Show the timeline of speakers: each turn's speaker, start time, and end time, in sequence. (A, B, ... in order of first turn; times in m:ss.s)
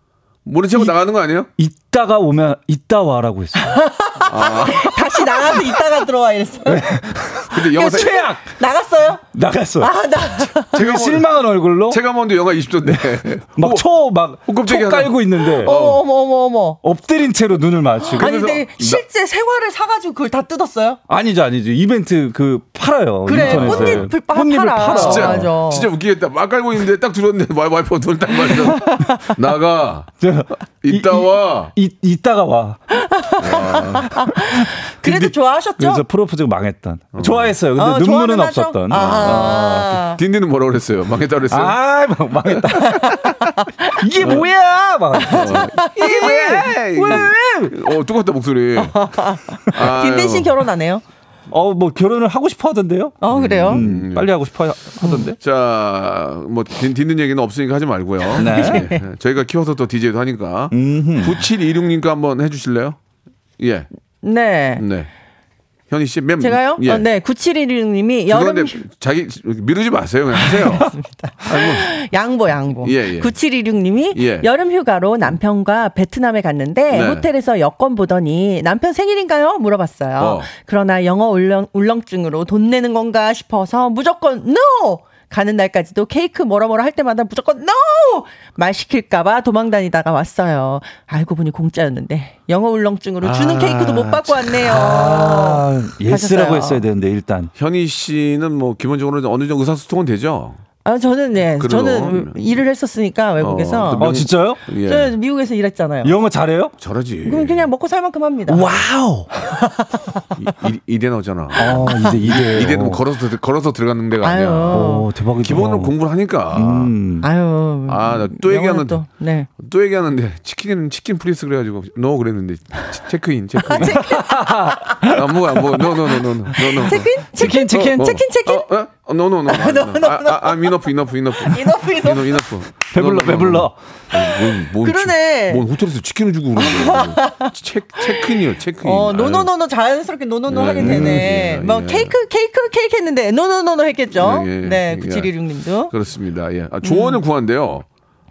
0:00.4-0:01.5 A
0:01.6-0:03.8 B
0:03.6-0:07.0 C
0:04.3-0:05.0 A
0:06.7-0:08.5 B
0:07.5-0:08.1 A
0:07.7-0:09.2 C
0:09.3-0:12.0 B
0:09.8-0:10.8 C
0:10.7-0:11.3 A
0:11.9-0:13.8 A
0:12.9-0:15.8 B
0:14.5-0:16.0 A
0:15.6-0:16.8 C
0:16.8-0:18.3 B
0:18.1-0:21.0 C
0:18.2-0:19.0 A
0:21.1-0:25.5 B
0:23.3-0:25.9 C
0:23.3-0:24.1 A
0:24.9-0:30.2 A
0:28.4-0:29.3 C
0:30.2-0:32.8 B
0:30.8-0:31.7 A
0:32.9-0:36.0 C
0:33.4-0:34.1 A
0:34.1-0:34.7 B
0:35.0-0:35.3 A
0:35.8-0:40.0 B
0:37.1-0:37.5 A
0:37.8-0:40.2 C
0:38.9-0:39.6 A
0:40.2-0:41.8 A
0:41.5-0:43.4 B
0:42.5-0:43.3 A
0:43.4-0:44.0 C
0:43.9-0:47.7 B
0:44.2-0:44.5 A
0:45.2-0:47.3 C
0:45.3-0:50.5 A
0:48.8-0:51.0 C
0:51.5-0:55.4 B
0:53.2-0:53.8 C
0:53.3-0:54.3 A
0:55.3-1:03.0 A
0:58.4-0:58.9 B
0:58.4-0:59.0 C
1:00.7-1:01.4 B
1:03.6-1:03.9 A
1:04.2-1:04.8 C
1:04.8-1:05.1 A
1:05.9-1:07.1 A
1:06.4-1:08.8 C
1:08.3-1:10.9 A
1:10.3-1:36.8 C
1:11.4-1:11.9 A
1:12.8-1:13.3 A
1:14.1-1:14.5 A
1:16.9-1:17.3 A
1:20.2-1:20.5 A
1:33.2-1:34.6 A
1:34.7-1:37.5 B
1:37.6-1:40.6 A
1:40.8-1:44.0 C
1:41.6-1:42.4 A
1:43.4-1:45.1 A
1:44.0-1:44.6 B
1:44.8-1:46.1 C
1:46.0-1:46.8 B
1:46.8-1:47.7 A
1:47.2-1:48.6 C
1:48.5-1:49.3 B
1:49.4-1:50.6 C
1:50.4-1:56.9 A
1:51.6-1:52.2 C
1:51.6-1:53.0 B
1:54.2-1:55.1 C
1:54.7-1:56.0 B
1:56.5-1:57.3 B
1:57.2-1:59.5 C
1:57.9-1:59.0 A
1:59.6-2:04.2 A
2:03.7-2:05.2 C
2:03.9-2:05.2 B
2:05.0-2:19.5 A
2:06.5-2:08.2 B
2:06.5-2:08.7 C
2:09.5-2:12.4 C
2:12.9-2:13.8 B
2:14.8-2:15.6 C
2:16.6-2:17.5 C
2:18.0-2:25.9 C
2:20.5-2:22.2 A
2:20.8-2:21.3 B
2:24.1-2:25.3 A
2:25.9-2:27.9 A
2:26.8-2:27.2 C